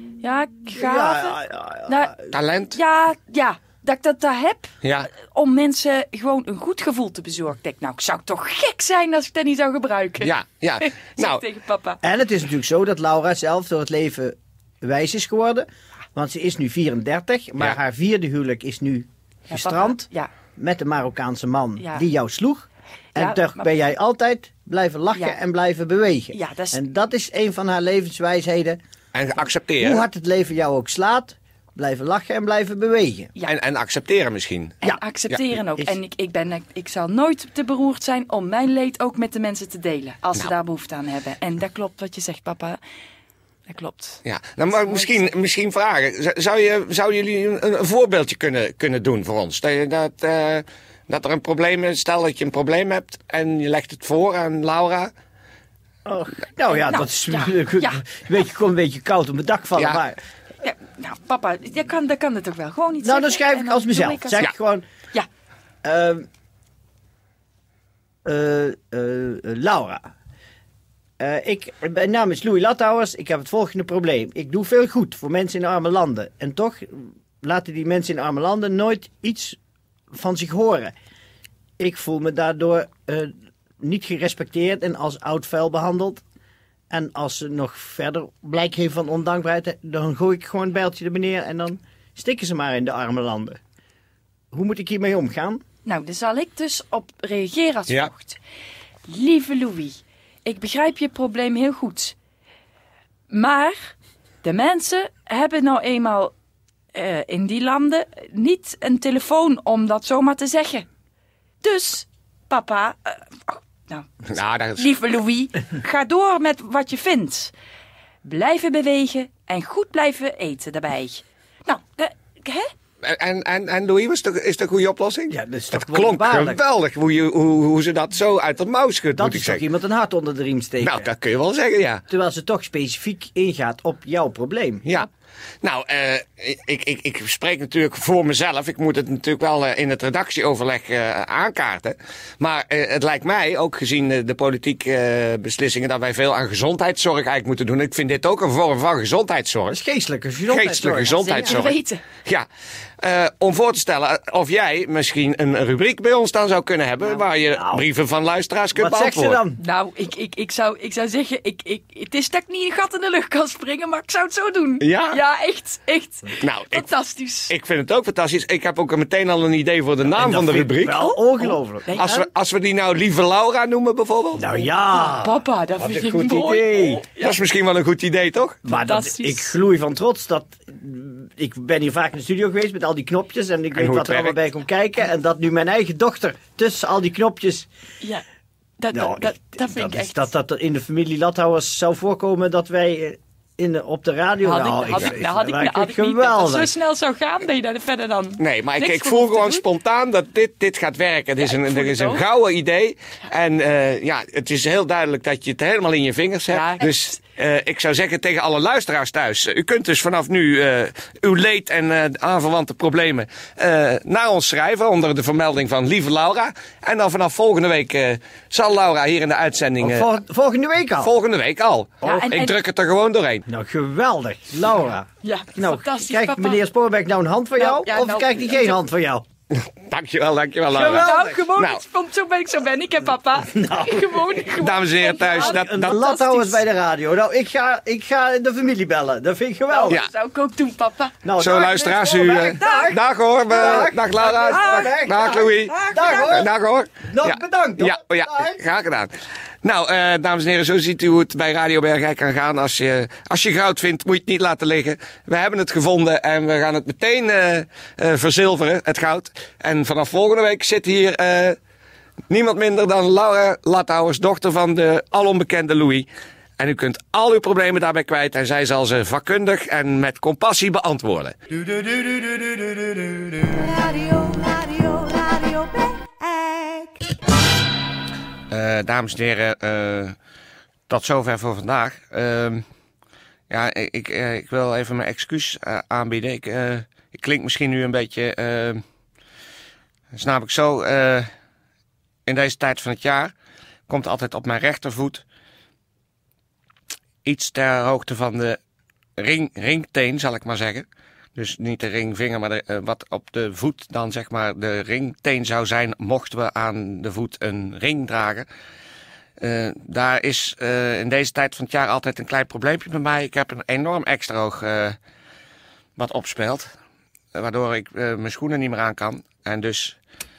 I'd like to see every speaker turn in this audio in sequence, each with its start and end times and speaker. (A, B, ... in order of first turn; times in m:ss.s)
0:00.2-0:02.1 A
0:00.7-0:02.2 B
0:02.3-0:02.8 C
0:02.7-0:12.0 A
0:04.8-0:05.1 C
0:10.2-0:11.4 C
0:12.0-0:28.8 B
0:19.5-0:20.3 A
0:21.8-0:22.0 A
0:23.1-0:23.8 A
0:26.3-0:26.8 A
0:29.1-0:30.0 C
0:29.8-0:33.3 B
0:33.5-0:35.6 C
0:34.8-0:42.8 A
0:43.7-0:44.2 A
0:44.2-0:55.1 C
0:44.8-0:45.2 A
0:56.0-1:00.2 B
0:56.7-0:58.0 A
1:00.6-1:04.5 A
1:03.0-1:04.8 B
1:05.8-1:06.2 B
1:08.2-1:10.0 B
1:11.2-1:19.6 B
1:20.1-1:20.9 B
1:21.8-1:26.2 B
1:26.9-1:33.6 B
1:34.5-1:35.6 B
1:35.8-1:38.4 A
1:39.1-1:42.1 A
1:43.3-1:43.9 A
1:44.4-1:46.3 A
1:46.9-1:50.8 A
1:51.6-1:54.1 A
1:54.3-1:54.8 C
1:54.8-1:57.5 A
1:58.2-2:02.7 A
2:03.0-2:09.6 C
2:05.3-2:06.6 B
2:09.2-2:11.1 B
2:10.8-2:12.0 C
2:12.1-2:14.8 B
2:15.6-2:29.8 C
2:29.7-2:31.6 B
2:30.5-2:32.4 C
2:31.1-2:32.0 A
2:33.0-2:39.4 C
2:37.2-2:37.8 B
2:38.7-2:39.6 B
2:39.6-2:47.5 A
2:44.8-2:45.2 C
2:46.4-2:46.9 C
2:47.5-2:51.0 C
2:50.1-2:52.3 B
2:51.4-2:52.1 A
2:51.9-2:54.4 C
2:54.3-2:57.0 B
2:54.9-2:57.4 A
2:57.2-2:58.6 C
2:58.6-3:07.7 B
2:58.7-2:59.5 A
3:03.8-3:04.4 C
3:08.8-3:10.3 A
3:08.9-3:16.7 B
3:14.4-3:19.6 A
3:18.4-3:40.1 C
3:21.4-3:22.2 A
3:26.5-3:27.1 A
3:39.8-3:41.1 B
3:41.0-3:43.4 C
3:42.0-3:42.5 A
3:43.5-3:49.2 B
3:45.2-3:46.6 A
3:47.6-3:48.8 A
3:49.5-3:51.8 C
3:50.7-3:51.4 B
3:50.8-3:56.5 A
3:53.5-3:54.2 B
3:54.6-3:56.2 C
3:55.2-4:00.0 B
3:59.7-4:01.2 A
4:01.2-4:06.5 B
4:01.4-4:09.1 C
4:02.2-4:02.9 A
4:03.5-4:03.9 A
4:04.5-4:06.3 A
4:07.0-4:08.6 B
4:09.6-4:21.6 C
4:22.3-4:26.1 C
4:26.6-4:32.1 C
4:33.6-4:37.0 D
4:38.5-4:40.1 C
4:40.9-4:42.6 C
4:43.5-4:48.8 C
4:50.1-4:51.2 C
4:52.2-4:53.3 C
4:53.9-4:55.2 C
4:57.2-4:58.6 C
4:59.2-5:08.5 C
5:09.4-5:15.0 C
5:16.0-5:16.7 C
5:17.3-5:20.0 C